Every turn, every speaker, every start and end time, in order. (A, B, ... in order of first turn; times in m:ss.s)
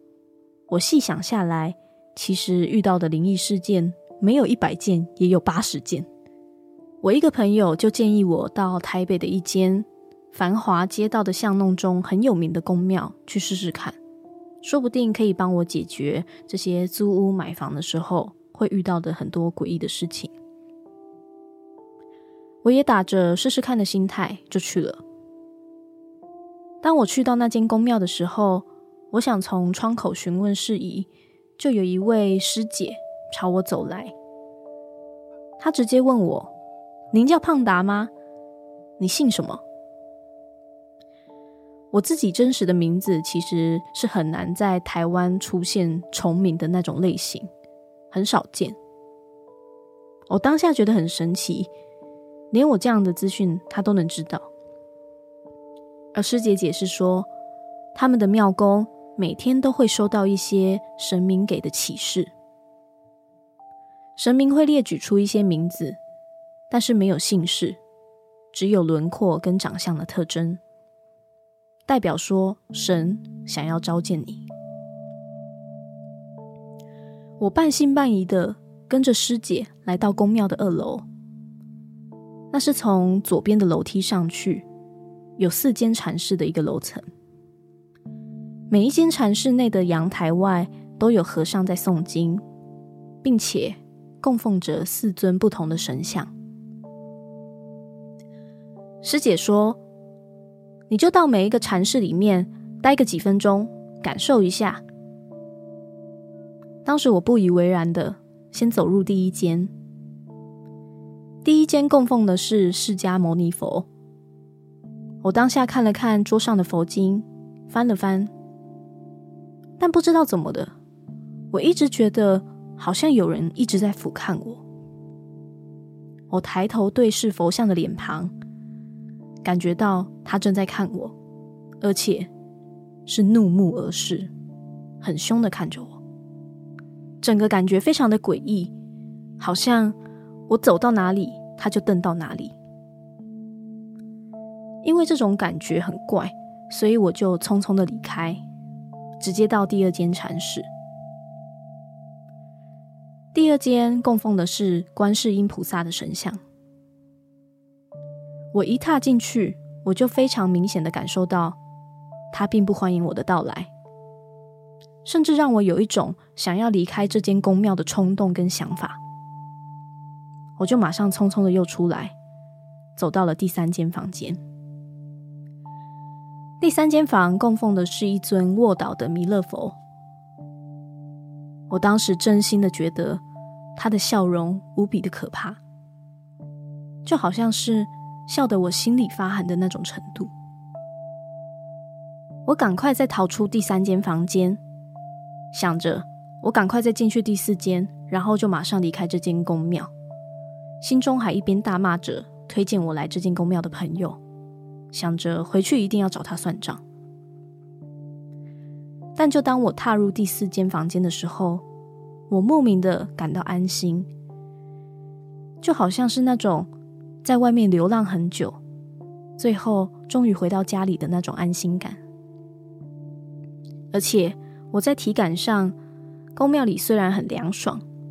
0:00.7-0:06.1 A
0:07.0-0:14.0 A
0:14.6-0:20.3 A
0:22.6-0:25.0 A
0:26.8-0:31.1 A
0:31.6-0:34.1 A
0:35.6-0:36.5 A
0:37.1-0:38.1 A
0:39.0-0:39.6 A
0:41.9-0:47.5 A
0:48.1-0:48.8 A
0:50.3-0:51.7 A
0:52.5-0:54.5 A
0:56.2-0:57.3 A
0:58.0-1:02.3 A
1:04.2-1:06.0 A
1:06.7-1:07.8 A
1:08.5-1:10.6 A
1:11.9-1:14.5 A
1:17.4-1:21.0 A
1:22.5-1:24.7 A
1:25.4-1:27.0 A
1:28.7-1:32.4 A
1:33.2-1:36.3 A
1:39.0-1:39.8 A
1:40.9-1:44.8 A
1:46.8-1:49.7 A
1:51.4-1:53.9 A
1:55.2-1:58.3 A
1:59.8-2:00.7 A
2:01.5-2:04.6 A
2:06.3-2:08.3 A
2:09.4-2:11.2 A
2:11.8-2:12.3 A
2:13.1-2:14.3 A
2:15.0-2:16.0 A
2:17.2-2:18.7 A
2:19.4-2:20.0 A
2:20.5-2:22.6 A
2:24.8-2:28.4 A
2:29.2-2:30.7 A
2:33.3-2:36.4 A
2:38.5-2:41.6 A
2:42.3-2:43.7 A
2:45.0-2:49.0 A
2:50.6-2:52.2 A
2:53.0-2:54.4 A
2:56.6-2:59.8 A
3:01.7-3:03.2 A
3:03.8-3:05.6 A
3:07.0-3:10.3 A
3:12.5-3:14.6 A
3:15.5-3:19.9 A
3:20.8-3:24.2 A
3:24.9-3:26.8 A
3:29.2-3:31.6 A
3:32.3-3:34.1 A
3:35.6-3:36.7 A
3:37.2-3:38.6 A
3:39.4-3:42.0 A
3:43.9-3:45.7 A
3:46.4-3:47.8 A